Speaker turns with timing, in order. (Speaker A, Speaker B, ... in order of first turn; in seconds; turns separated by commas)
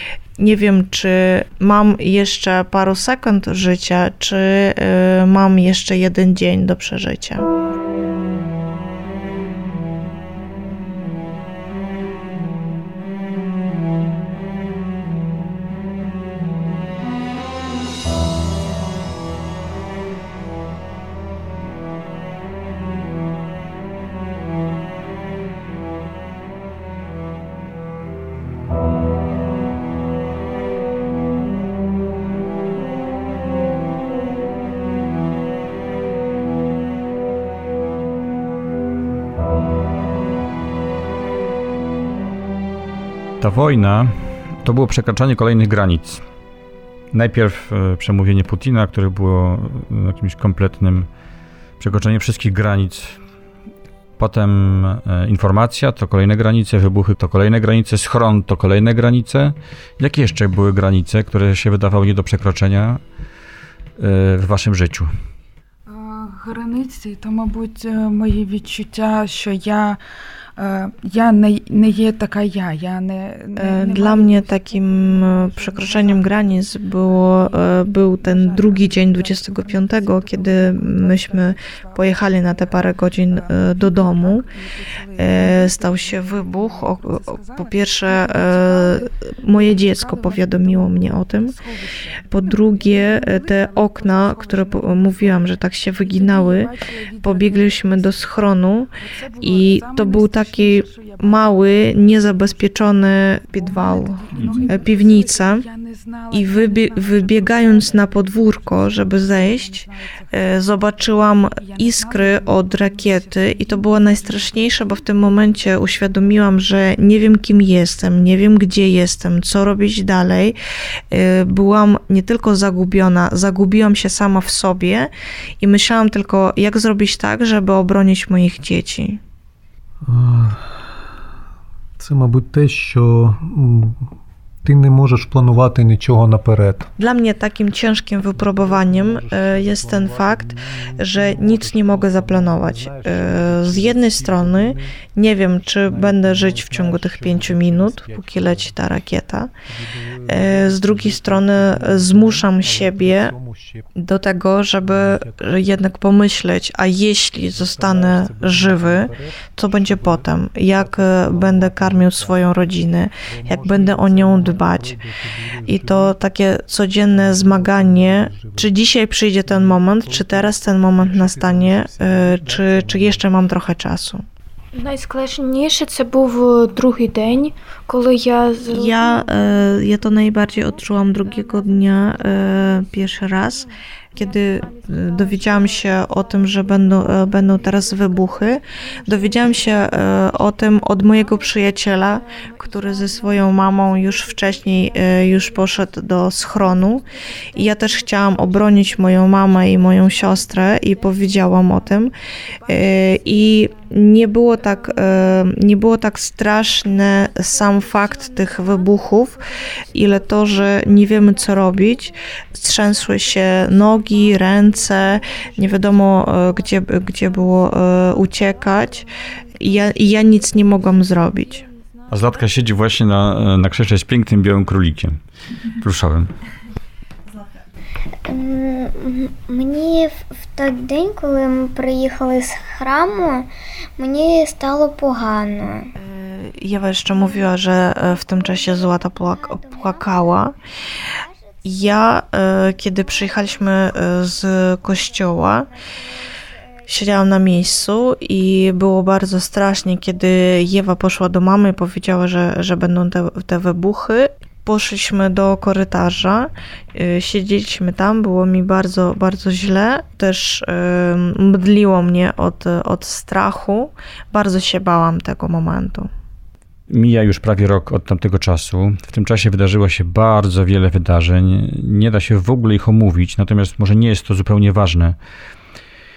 Speaker A: 0.4-7.5, Speaker B: 43.4-46.2, Speaker B: 47.1-51.1, Speaker B: 51.8-53.2, Speaker B: 54.2-63.0, Speaker B: 64.0-65.1, Speaker C: 65.9-70.0, Speaker C: 70.6-98.4, Speaker A: 73.6-84.5, Speaker A: 85.2-91.5, Speaker A: 92.3-105.7, Speaker C: 99.0-115.8, Speaker B: 104.3-104.6, Speaker A: 106.3-120.6, Speaker A: 121.1-129.2, Speaker D: 130.0-131.1, Speaker D: 132.0-134.1, Speaker D: 134.6-136.9, Speaker A: 137.0-149.5, Speaker D: 138.3-144.9, Speaker D: 145.9-148.8, Speaker D: 149.7-153.9, Speaker A: 150.3-153.3, Speaker A: 154.0-165.0, Speaker D: 154.8-155.6, Speaker D: 157.5-162.4, Speaker D: 163.3-166.2, Speaker A: 165.6-174.2, Speaker D: 167.1-168.8, Speaker D: 169.4-173.3, Speaker E: 174.7-196.0, Speaker A: 178.7-202.1, Speaker E: 196.6-201.9, Speaker E: 202.6-203.9, Speaker A: 202.7-209.4, Speaker E: 204.7-205.2, Speaker E: 207.3-211.9, Speaker A: 209.9-221.6, Speaker E: 213.0-216.3, Speaker E: 218.6-219.0, Speaker E: 219.9-220.5, Speaker E: 221.2-222.1, Speaker B: 222.1-225.2, Speaker B: 225.8-226.3, Speaker F: 228.3-235.9, Speaker A: 236.0-240.5, Speaker F: 237.2-237.5, Speaker F: 238.1-240.5, Speaker F: 241.2-241.8, Speaker A: 241.7-245.7, Speaker A: 246.9-266.1, Speaker B: 266.9-275.2